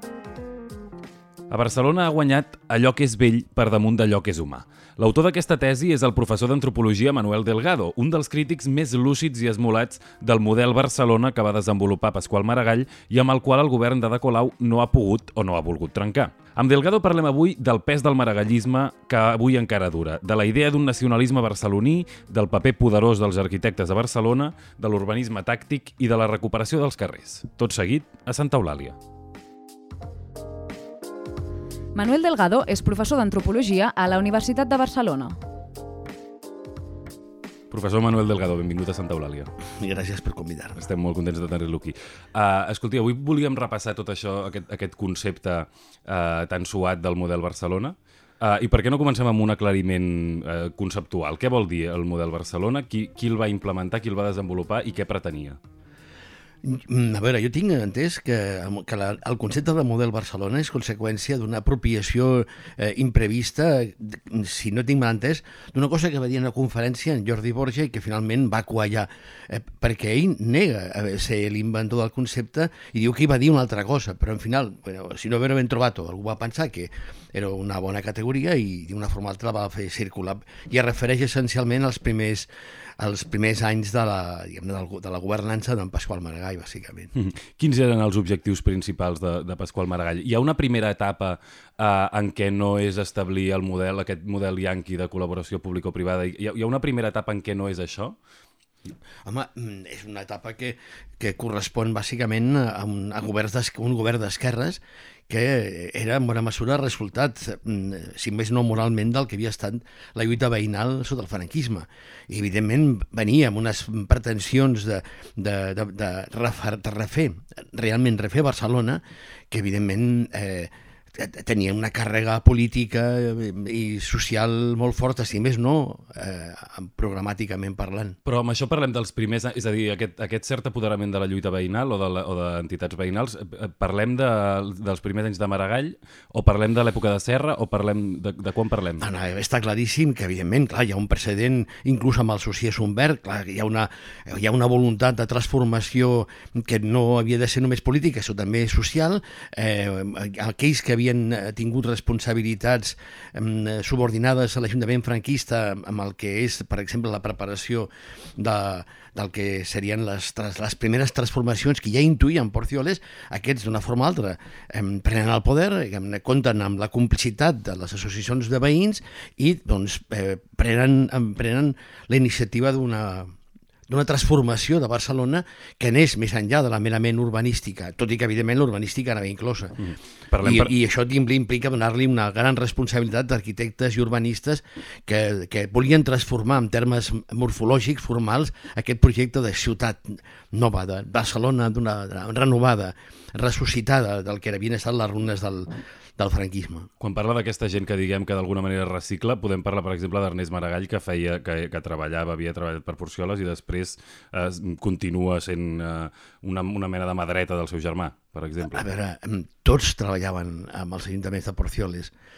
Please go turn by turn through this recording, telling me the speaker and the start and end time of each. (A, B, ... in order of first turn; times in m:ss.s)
0:01.5-0:29.0 A
0:31.9-0:35.4 B
0:37.7-0:39.5 A
0:39.7-0:40.8 C
0:40.8-0:55.6 A
0:56.6-1:27.1 C
1:27.1-1:38.2 A
1:39.2-2:08.2 C
2:08.2-2:19.0 A
2:19.0-2:53.4 C
2:53.9-3:16.9 C
3:00.3-3:00.7 A
3:17.0-3:28.8 A
3:28.6-3:32.1 C